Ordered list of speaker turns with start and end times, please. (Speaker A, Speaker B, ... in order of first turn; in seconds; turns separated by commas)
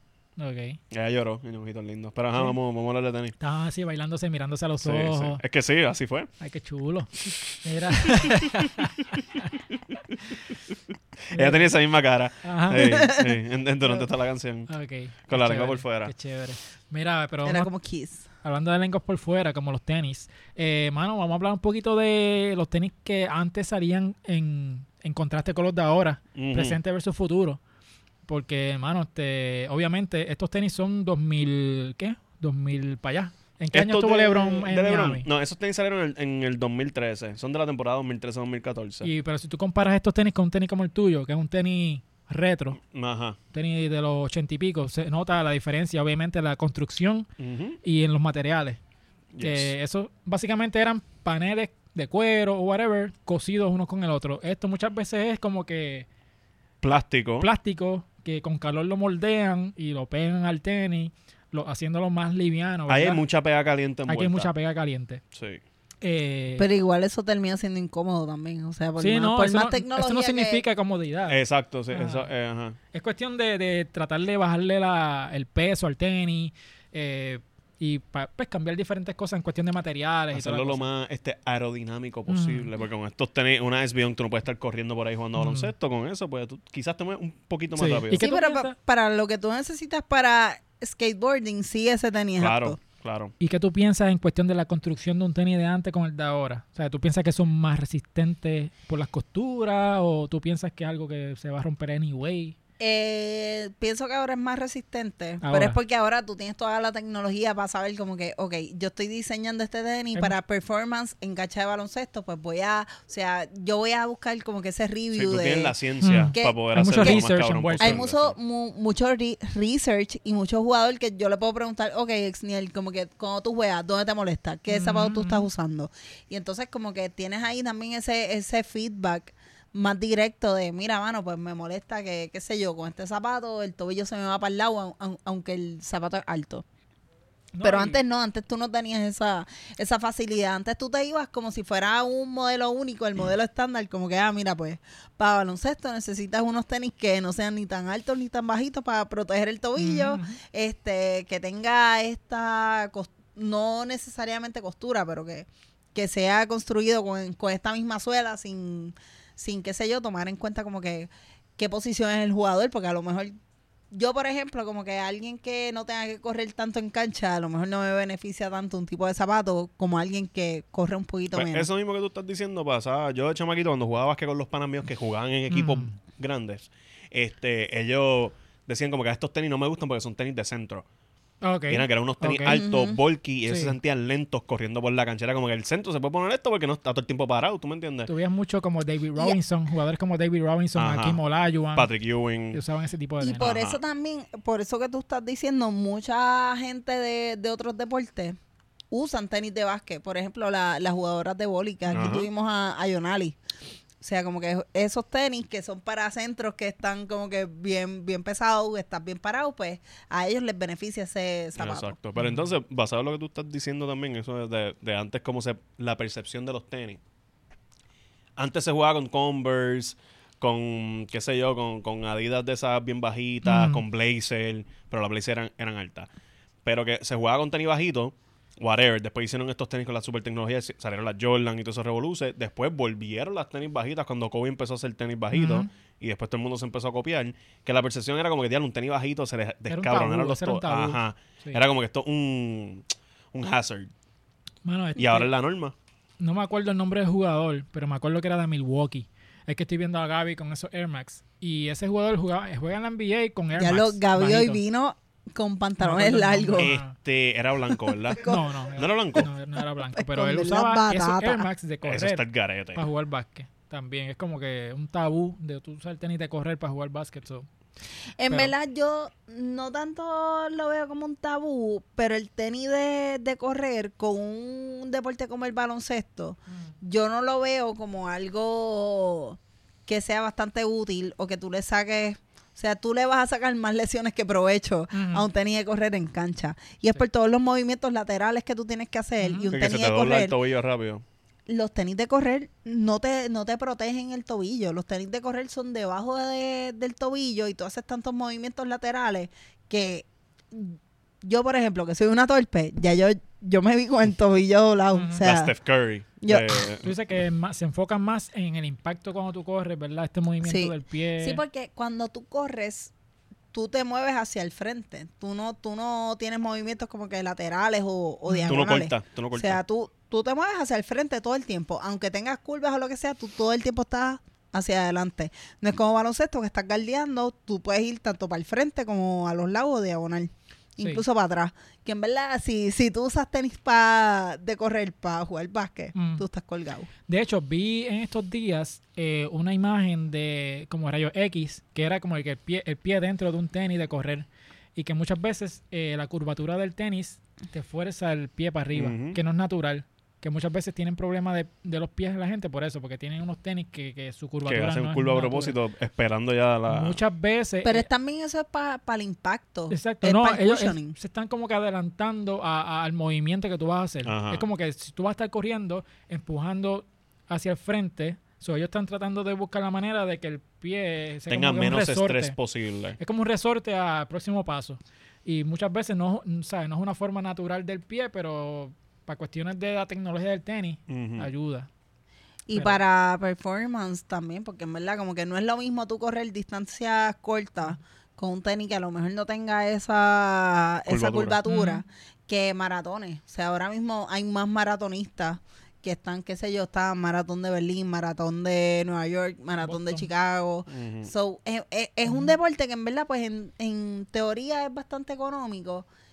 Speaker A: 0.4-0.8, Speaker B: 0.9-3.4, Speaker A: 3.4-5.4, Speaker B: 4.8-6.3, Speaker A: 6.4-9.5, Speaker B: 8.0-8.7, Speaker A: 11.3-11.8, Speaker B: 11.3-14.7, Speaker A: 12.4-13.1, Speaker C: 12.8-13.3, Speaker A: 14.7-17.7, Speaker B: 15.3-16.1, Speaker C: 17.4-18.3, Speaker A: 18.4-27.6, Speaker B: 26.4-26.8, Speaker A: 28.3-35.3, Speaker B: 33.7-39.1, Speaker A: 39.0-42.8, Speaker B: 42.8-43.4, Speaker A: 43.5-47.3, Speaker B: 47.4-47.8, Speaker A: 47.8-48.8, Speaker B: 49.3-49.7, Speaker A: 49.4-56.1, Speaker B: 56.8-57.5, Speaker A: 57.4-63.2, Speaker B: 62.9-64.5, Speaker A: 64.1-65.2, Speaker B: 65.3-65.6, Speaker A: 66.0-66.7, Speaker C: 66.6-70.6, Speaker A: 69.0-71.4, Speaker B: 71.3-72.8, Speaker A: 71.9-72.3, Speaker A: 72.9-80.9, Speaker B: 80.3-88.2, Speaker A: 82.3-82.7, Speaker A: 85.3-85.7, Speaker A: 87.8-88.7, Speaker C: 88.1-92.8, Speaker B: 92.4-93.3, Speaker A: 93.4-102.6, Speaker C: 102.8-115.7, Speaker A: 105.4-105.8, Speaker B: 115.1-118.4, Speaker A: 116.0-118.0, Speaker C: 116.3-117.3, Speaker C: 117.8-136.6, Speaker A: 124.7-125.5, Speaker A: 137.5-138.0, Speaker C: 137.6-163.4, Speaker A: 149.8-150.4, Speaker C: 163.9-171.7, Speaker B: 171.3-180.8, Speaker A: 175.5-176.0, Speaker A: 181.4-182.6, Speaker B: 181.7-188.1, Speaker C: 182.5-183.0, Speaker A: 183.5-183.8, Speaker A: 188.1-191.9, Speaker B: 190.8-191.2, Speaker B: 191.7-192.6, Speaker A: 192.5-193.5, Speaker C: 193.2-198.4, Speaker B: 193.4-193.8, Speaker C: 198.9-203.4, Speaker B: 201.9-202.3, Speaker C: 204.0-211.9, Speaker B: 211.6-217.0, Speaker A: 212.2-212.5, Speaker B: 218.4-226.1, Speaker A: 223.4-223.8, Speaker B: 226.7-243.9, Speaker A: 235.3-235.7, Speaker A: 239.7-241.6, Speaker A: 244.6-245.3, Speaker B: 245.0-245.8, Speaker A: 246.2-254.6, Speaker C: 253.6-256.8, Speaker A: 255.8-256.9, Speaker B: 256.6-259.3, Speaker C: 258.1-258.4, Speaker A: 258.2-267.5, Speaker C: 259.9-261.5, Speaker B: 261.9-262.9, Speaker C: 268.2-290.4, Speaker A: 276.5-276.7, Speaker A: 284.9-285.3, Speaker A: 289.2-289.5, Speaker B: 289.5-291.0, Speaker C: 291.5-305.5, Speaker A: 304.9-305.2, Speaker B: 305.2-307.0, Speaker C: 306.2-306.6, Speaker A: 306.8-311.4, Speaker C: 310.4-312.9, Speaker C: 313.5-336.9, Speaker A: 318.3-318.6, Speaker B: 318.5-319.6, Speaker A: 335.9-336.2, Speaker A: 337.1-355.6, Speaker B: 348.7-349.2, Speaker B: 354.4-357.0, Speaker A: 356.7-357.9, Speaker C: 357.6-361.0, Speaker A: 359.7-372.4, Speaker B: 364.1-364.4, Speaker B: 371.3-373.0, Speaker A: 373.0-381.7, Speaker B: 380.9-381.3, Speaker C: 382.5-405.9, Speaker A: 382.5-382.8, Speaker B: 390.9-391.4, Speaker A: 391.5-391.8, Speaker A: 399.6-400.1, Speaker B: 400.7-401.1, Speaker A: 402.1-402.4